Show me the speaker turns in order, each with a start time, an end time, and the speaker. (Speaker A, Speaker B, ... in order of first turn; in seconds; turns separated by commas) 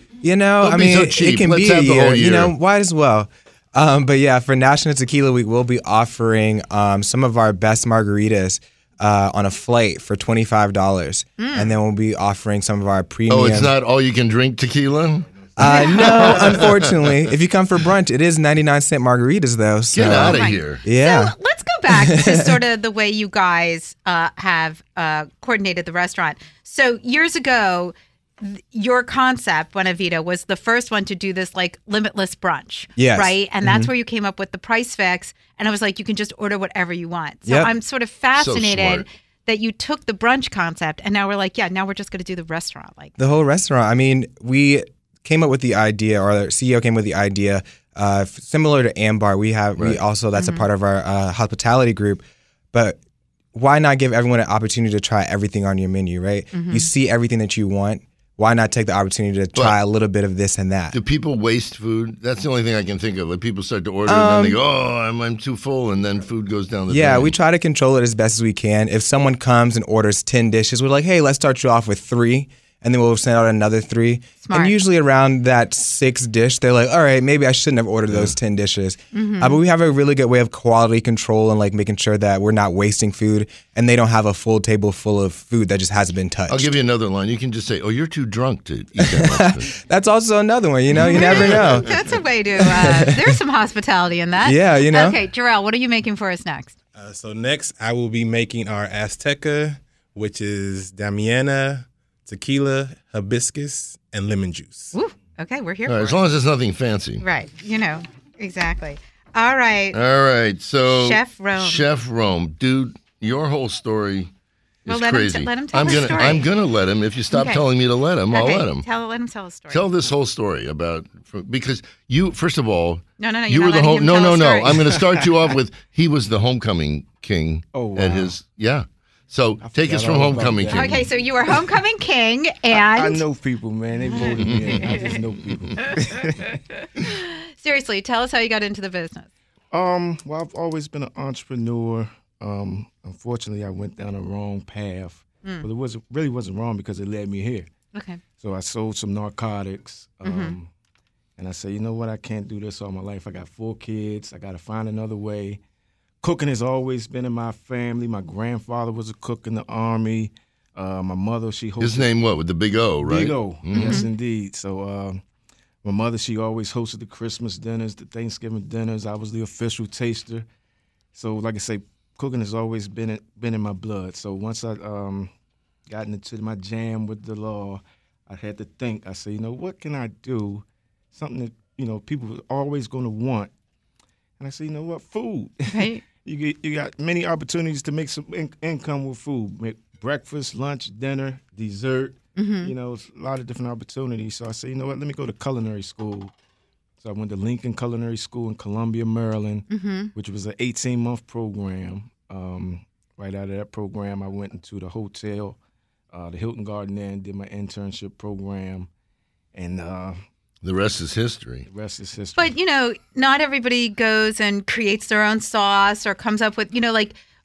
Speaker A: 0.2-13.7, Speaker B: 0.6-2.5, Speaker C: 11.4-11.7, Speaker B: 13.3-15.4, Speaker A: 15.6-21.4, Speaker C: 15.6-16.6, Speaker B: 15.9-17.0, Speaker B: 19.9-20.8, Speaker C: 20.2-43.1, Speaker A: 21.9-22.6, Speaker A: 33.0-33.9, Speaker A: 37.5-37.7, Speaker B: 38.4-39.1, Speaker A: 43.2-53.0, Speaker C: 50.4-50.7, Speaker A: 53.5-61.0, Speaker C: 56.5-56.9, Speaker B: 60.9-67.3, Speaker A: 64.1-64.6, Speaker A: 66.9-86.7, Speaker C: 74.4-74.8, Speaker B: 78.1-78.4, Speaker C: 79.1-79.6, Speaker B: 86.5-89.7, Speaker A: 89.0-91.9, Speaker C: 91.0-96.8, Speaker B: 91.0-92.2, Speaker A: 92.6-93.4, Speaker A: 94.4-95.2, Speaker D: 97.0-104.9, Speaker C: 104.9-106.2, Speaker B: 105.9-107.2, Speaker C: 107.2-110.0, Speaker B: 109.9-114.3, Speaker C: 110.9-111.9, Speaker B: 114.8-118.9, Speaker C: 114.9-116.5, Speaker C: 117.3-117.7, Speaker C: 118.3-119.8, Speaker B: 119.7-131.1, Speaker C: 123.2-124.9, Speaker E: 124.7-125.5, Speaker E: 127.7-128.4, Speaker E: 129.6-131.0, Speaker C: 130.7-133.2, Speaker E: 132.7-136.6, Speaker C: 134.1-135.2, Speaker B: 134.4-134.9, Speaker C: 135.8-136.2, Speaker C: 136.8-139.3, Speaker E: 139.7-147.7, Speaker C: 147.9-148.2, Speaker E: 148.4-150.7, Speaker C: 150.2-150.6, Speaker E: 151.4-155.6, Speaker E: 156.2-162.1, Speaker B: 161.8-164.1, Speaker E: 163.0-165.2, Speaker C: 163.7-164.1, Speaker E: 165.8-170.5, Speaker E: 171.1-175.3, Speaker E: 175.9-183.5, Speaker E: 184.4-196.3, Speaker C: 185.7-186.0, Speaker C: 192.4-192.7, Speaker E: 197.0-205.6, Speaker C: 199.7-200.1, Speaker E: 206.1-208.9, Speaker E: 209.5-210.2, Speaker B: 210.6-211.7, Speaker E: 211.7-212.5, Speaker C: 212.4-217.2